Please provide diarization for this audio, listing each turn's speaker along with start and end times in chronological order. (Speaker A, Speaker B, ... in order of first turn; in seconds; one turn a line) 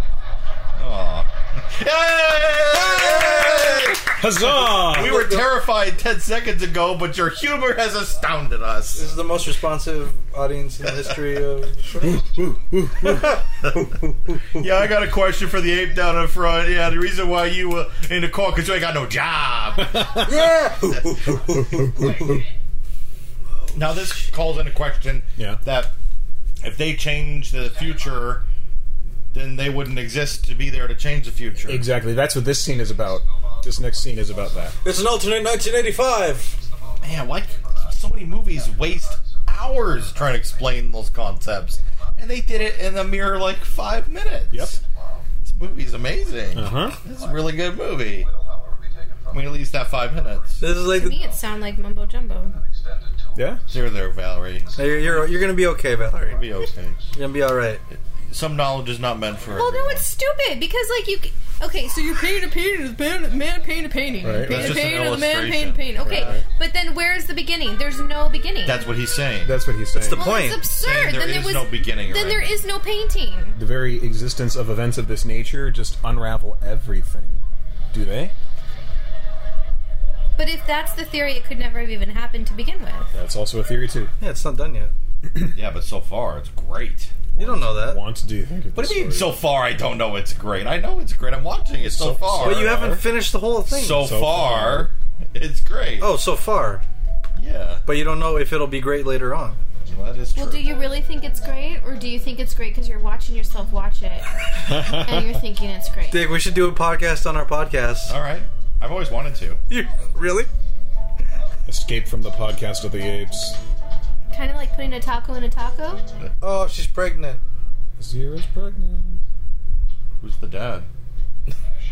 Speaker A: 0.8-9.1
Speaker B: 3.0-5.2
Speaker C: 4.7-5.5
Speaker C: 8.9-12.2
Speaker B: 12.0-13.4
Speaker C: 13.1-14.6
Speaker A: 13.1-13.8
Speaker A: 14.5-20.2
Speaker B: 19.8-20.5
Speaker C: 20.2-22.4
Speaker A: 20.9-21.2
Speaker B: 21.4-22.4
Speaker A: 23.7-25.9
Speaker B: 25.4-25.6
Speaker A: 26.6-28.4
Speaker A: 29.3-31.9
Speaker B: 31.6-34.8
Speaker C: 34.8-36.5
Speaker A: 37.0-44.8
Speaker B: 44.5-44.8
Speaker A: 45.4-48.3
Speaker B: 46.5-47.0
Speaker A: 49.3-50.8
Speaker C: 50.6-51.2
Speaker D: 50.9-52.6
Speaker B: 53.3-53.7
Speaker A: 53.7-55.3
Speaker C: 54.8-56.4
Speaker A: 56.2-57.0
Speaker C: 57.1-57.8
Speaker A: 57.9-60.0
Speaker D: 59.5-68.9
Speaker B: 64.2-65.0
Speaker A: 64.4-66.4
Speaker B: 66.0-66.5
Speaker A: 68.7-69.6
Speaker B: 69.4-70.3
Speaker C: 69.9-70.6
Speaker D: 70.1-73.6
Speaker A: 70.6-72.6
Speaker B: 73.6-78.3
Speaker D: 80.4-83.1
Speaker B: 83.1-84.1
Speaker C: 84.2-84.9
Speaker A: 85.4-87.1
Speaker B: 87.3-89.4
Speaker C: 87.4-88.0
Speaker A: 88.8-93.0
Speaker B: 91.8-93.0
Speaker C: 92.4-94.1
Speaker A: 93.7-96.1
Speaker B: 94.0-94.9
Speaker C: 96.0-96.8
Speaker A: 97.4-97.8
Speaker C: 97.9-99.6
Speaker A: 99.9-100.7
Speaker D: 100.3-106.3
Speaker B: 104.6-105.4
Speaker C: 106.1-108.2
Speaker A: 108.1-109.6
Speaker C: 109.7-110.5
Speaker B: 111.7-113.6
Speaker D: 114.3-116.0
Speaker C: 116.4-117.4
Speaker B: 118.0-119.2
Speaker A: 120.2-120.9